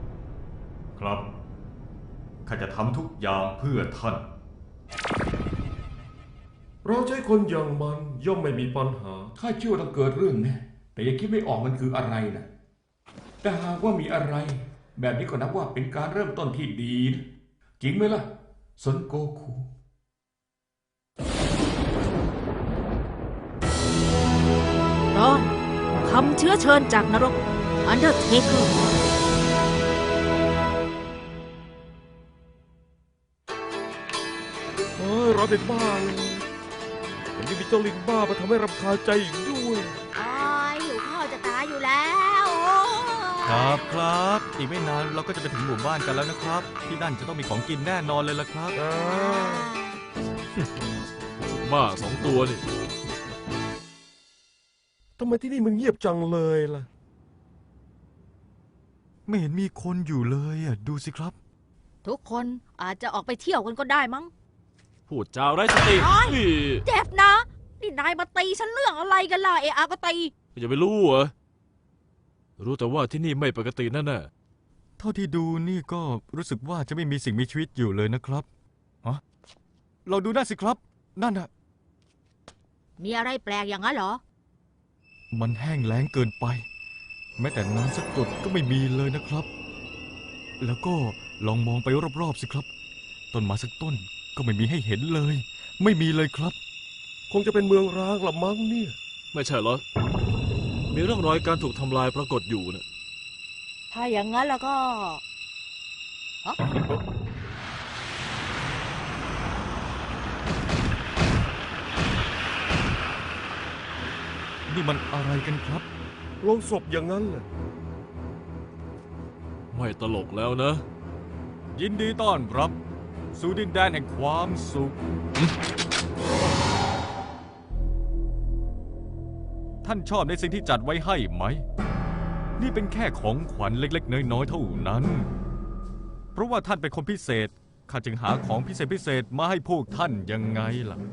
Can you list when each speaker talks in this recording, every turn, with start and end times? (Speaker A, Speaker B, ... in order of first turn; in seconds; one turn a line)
Speaker A: 0.9-1.3
Speaker A: 2.4-4.3
Speaker B: 6.8-9.3
Speaker C: 9.3-12.5
Speaker C: 13.4-17.2
Speaker C: 17.8-18.3
Speaker C: 18.8-19.7
Speaker D: 25.1-25.5
Speaker D: 26.0-28.8
Speaker B: 35.0-36.4
Speaker B: 37.4-40.0
Speaker D: 40.1-43.8
Speaker A: 43.5-48.8
Speaker B: 48.7-49.7
Speaker D: 49.1-50.0
Speaker E: 51.5-52.6
Speaker B: 55.2-56.9
Speaker A: 59.2-61.4
Speaker D: 62.0-64.3
Speaker E: 65.1-66.8
Speaker D: 66.0-70.3
Speaker E: 70.5-71.3
Speaker E: 72.6-74.3
Speaker A: 75.0-78.5
Speaker A: 80.0-81.5
Speaker D: 83.0-84.2
Speaker A: 85.3-86.7
Speaker A: 87.4-89.5
Speaker A: 90.6-92.7
Speaker A: 93.3-96.6
Speaker B: 97.3-99.0
Speaker E: 99.3-99.8
Speaker E: 100.9-102.8
Speaker D: 103.9-105.2
Speaker A: 114.7-115.8
Speaker B: 116.4-117.5
Speaker E: 119.7-120.8
Speaker A: 121.7-122.8
Speaker A: 123.3-125.2
Speaker A: 129.8-131.6
Speaker A: 132.6-135.3
Speaker A: 136.3-141.0